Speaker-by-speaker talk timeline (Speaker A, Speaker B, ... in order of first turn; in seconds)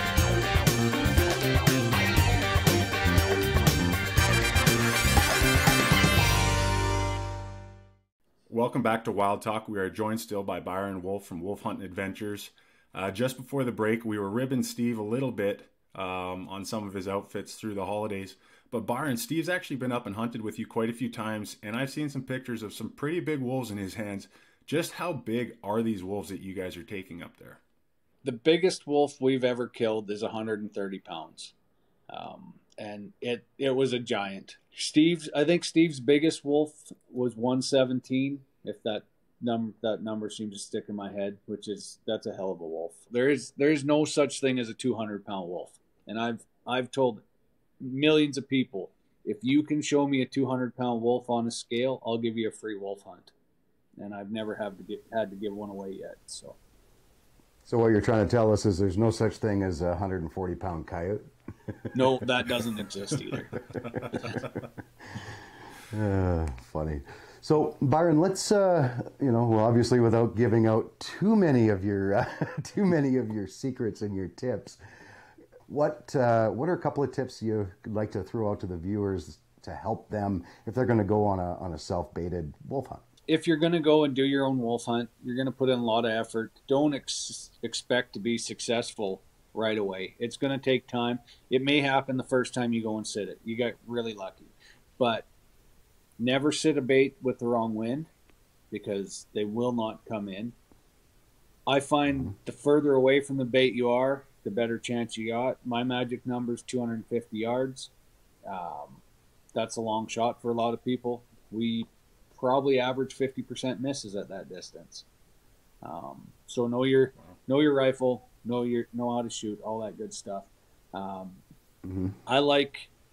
Speaker A: 8.5-27.6
Speaker B: 28.2-31.5, 32.1-47.2, 47.8-53.3, 54.0-56.6, 61.9-63.6, 83.3-95.3, 96.2-98.1, 98.7-100.5, 101.7-107.9, 108.5-109.0, 109.5-115.1, 115.8-121.4, 122.3-122.9
Speaker C: 57.7-61.3, 63.9-64.4, 65.9-74.8, 75.7-83.0, 121.8-122.2